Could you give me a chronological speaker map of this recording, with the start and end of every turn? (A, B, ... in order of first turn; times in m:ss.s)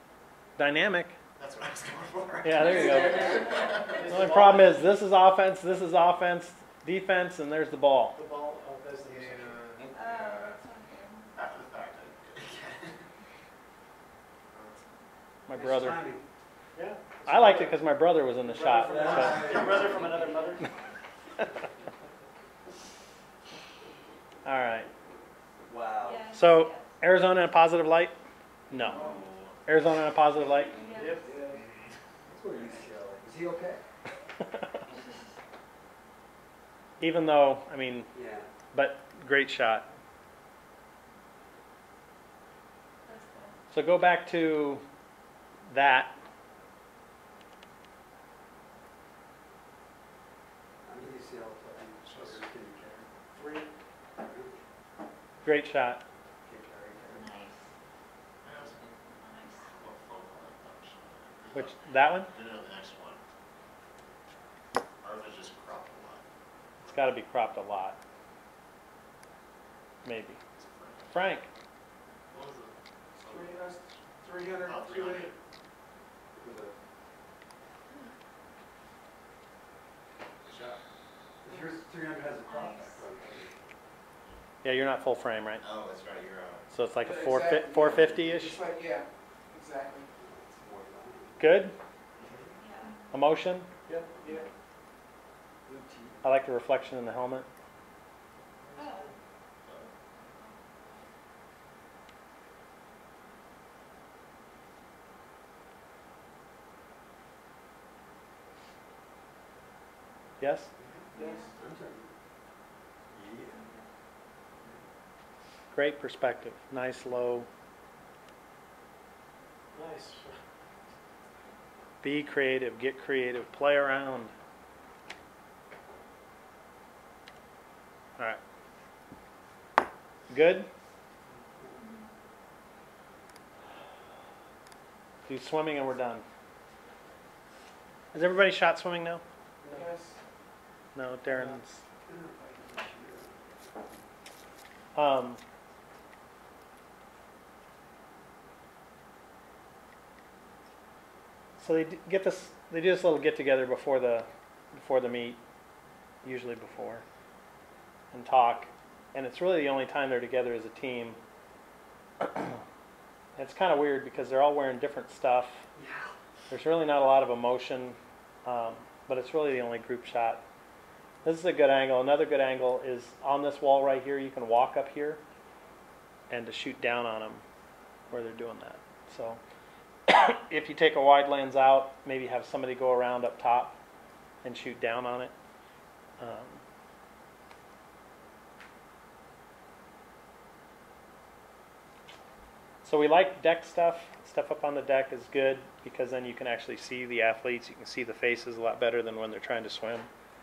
0:00.6-0:01.2 A
0:01.4-0:04.1 B
0:02.4-0:03.4 A
0:02.6-0:03.7 C
0:02.8-0:04.9 D
0:04.0-0:08.2 A
0:08.1-0:09.7 D
0:09.0-0:10.6 B
0:09.9-0:11.3 C
0:11.3-0:12.9 B
0:14.5-0:14.8 B
0:15.5-0:16.0 A
0:15.5-0:16.2 E
0:16.7-0:17.8 D
0:17.2-0:19.8 A
0:18.3-0:20.7 D
0:18.8-0:20.2 E
0:19.5-0:20.3 B
0:24.4-0:24.9 A
0:25.6-0:26.3 E
0:26.0-0:26.9 C
0:26.3-0:28.2 A
0:28.7-0:29.0 A
0:28.7-0:29.6 B
0:28.8-0:29.2 F
0:29.6-0:30.8 A
0:30.6-0:31.3 C
0:30.8-0:31.6 D
0:31.2-0:31.5 F
0:32.3-0:33.8 E
0:37.0-0:38.1 A
0:38.1-0:38.5 E
0:38.7-0:39.9 A
0:43.1-0:43.5 C
0:43.7-0:44.8 A
0:45.7-0:46.2 A
0:50.8-0:53.1 E
0:52.0-0:52.4 B
0:53.3-0:53.7 D
0:54.2-0:54.6 E
0:55.4-0:56.0 A
0:56.4-0:57.4 E
0:57.1-0:57.5 C
0:58.4-0:59.0 B
0:59.1-0:59.7 C
0:59.7-1:03.2 B
1:01.5-1:02.3 A
1:05.0-1:06.2 B
1:06.8-1:08.0 A
1:10.0-1:10.4 A
1:10.6-1:11.2 B
1:11.1-1:11.5 A
1:12.3-1:13.6 B
1:13.2-1:15.3 F
1:14.5-1:15.4 B
1:16.3-1:16.7 E
1:20.4-1:20.8 B
1:21.4-1:23.5 E
1:22.5-1:23.0 C
1:24.6-1:25.6 A
1:25.6-1:26.6 B
1:26.7-1:28.6 A
1:27.0-1:30.1 F
1:30.2-1:31.6 E
1:31.4-1:31.7 A
1:32.2-1:32.5 B
1:32.6-1:33.0 C
1:33.1-1:33.7 A
1:33.9-1:34.4 D
1:35.6-1:36.2 E
1:36.2-1:37.5 A
1:38.8-1:39.1 C
1:39.6-1:39.9 B
1:40.3-1:41.0 C
1:50.4-1:50.7 A
1:51.1-1:51.5 C
1:51.1-1:51.5 F
1:51.6-1:52.1 E
1:53.1-1:53.6 E
1:53.5-1:53.8 C
1:55.7-1:57.5 A
1:59.7-2:00.4 D
2:02.0-2:04.3 A
2:10.3-2:10.7 A
2:11.6-2:11.8 E
2:11.8-2:12.0 C
2:15.3-2:16.2 A
2:18.1-2:19.2 A
2:19.6-2:20.2 F
2:20.9-2:21.8 A
2:21.2-2:23.8 E
2:24.9-2:25.4 A
2:31.6-2:35.4 A
2:36.2-2:37.0 A
2:38.1-2:41.2 A
2:42.2-2:42.6 A
2:43.4-2:45.6 A
2:45.7-2:46.1 E
2:46.5-2:50.4 A
2:51.2-2:55.2 A
2:56.3-2:57.4 A
2:58.1-2:59.4 A
3:00.1-3:03.8 A
3:04.4-3:05.3 A
3:06.2-3:06.6 A
3:12.8-3:20.1 A